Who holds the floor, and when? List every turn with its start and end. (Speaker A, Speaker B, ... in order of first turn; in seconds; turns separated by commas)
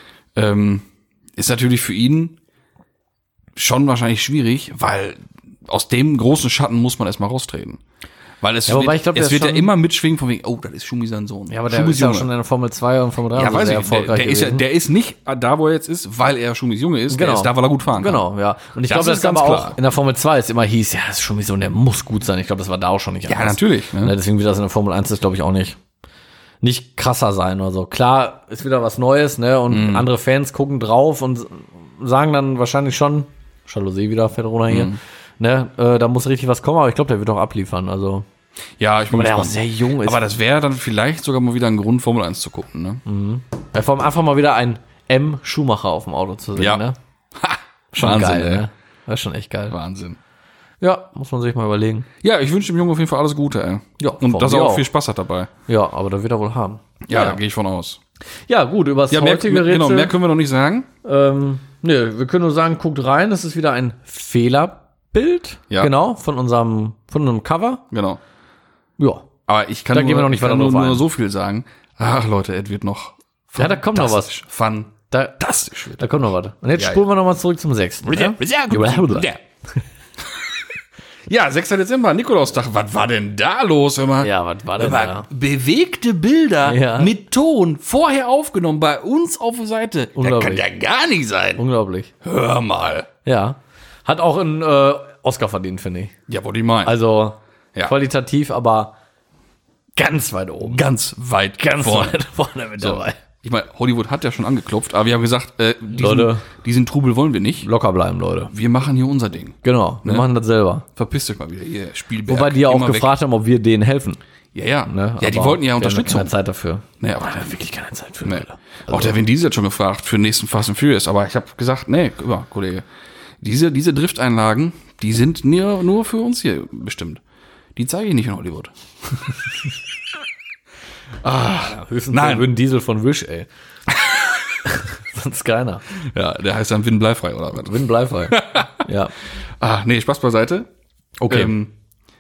Speaker A: 0.3-0.8, Speaker A: 1.4-2.3, Speaker A: 3.5-7.8, Speaker A: 8.4-12.3, Speaker B: 8.7-9.7, Speaker B: 11.5-14.6, Speaker A: 13.3-18.2, Speaker B: 17.1-25.8, Speaker A: 18.9-19.8, Speaker A: 23.3-24.1, Speaker B: 26.6-38.2, Speaker A: 29.7-30.1, Speaker A: 34.7-35.0, Speaker A: 38.8-43.0, Speaker B: 39.1-40.2, Speaker B: 43.0-47.0, Speaker A: 46.5-46.8, Speaker A: 47.3-48.6, Speaker B: 47.9-49.8, Speaker A: 49.7-50.2, Speaker B: 50.8-52.1, Speaker A: 52.2-55.5, Speaker B: 54.0-54.9, Speaker B: 55.7-57.4, Speaker A: 57.0-58.0, Speaker B: 58.5-60.1, Speaker A: 59.1-60.9, Speaker B: 61.0-67.8, Speaker A: 67.9-68.2, Speaker B: 69.0-69.2, Speaker A: 69.5-76.1, Speaker B: 69.9-71.0, Speaker B: 73.6-74.3, Speaker B: 75.1-75.4, Speaker B: 76.0-79.3, Speaker A: 76.8-77.0, Speaker A: 78.0-79.4, Speaker A: 81.3-91.6, Speaker B: 84.2-85.3, Speaker B: 86.6-87.1, Speaker B: 90.2-90.6, Speaker B: 91.6-92.1, Speaker A: 92.2-93.1, Speaker B: 93.2-96.1, Speaker A: 96.3-96.9, Speaker B: 96.8-98.9, Speaker B: 100.0-100.8, Speaker A: 100.6-102.2, Speaker B: 101.6-103.2, Speaker A: 102.8-107.7, Speaker B: 105.9-106.5, Speaker B: 107.6-108.5, Speaker A: 108.5-110.2, Speaker B: 109.6-110.8, Speaker A: 111.0-113.1, Speaker B: 112.3-114.2, Speaker A: 114.5-116.3, Speaker B: 114.9-119.2, Speaker A: 117.0-117.4, Speaker A: 118.2-122.8, Speaker A: 123.4-127.2, Speaker A: 127.8-129.3, Speaker A: 131.2-132.5, Speaker B: 131.6-133.5, Speaker B: 134.6-135.8, Speaker A: 135.9-138.7, Speaker B: 137.6-139.1, Speaker A: 139.6-140.7, Speaker B: 141.2-141.5, Speaker A: 141.3-141.7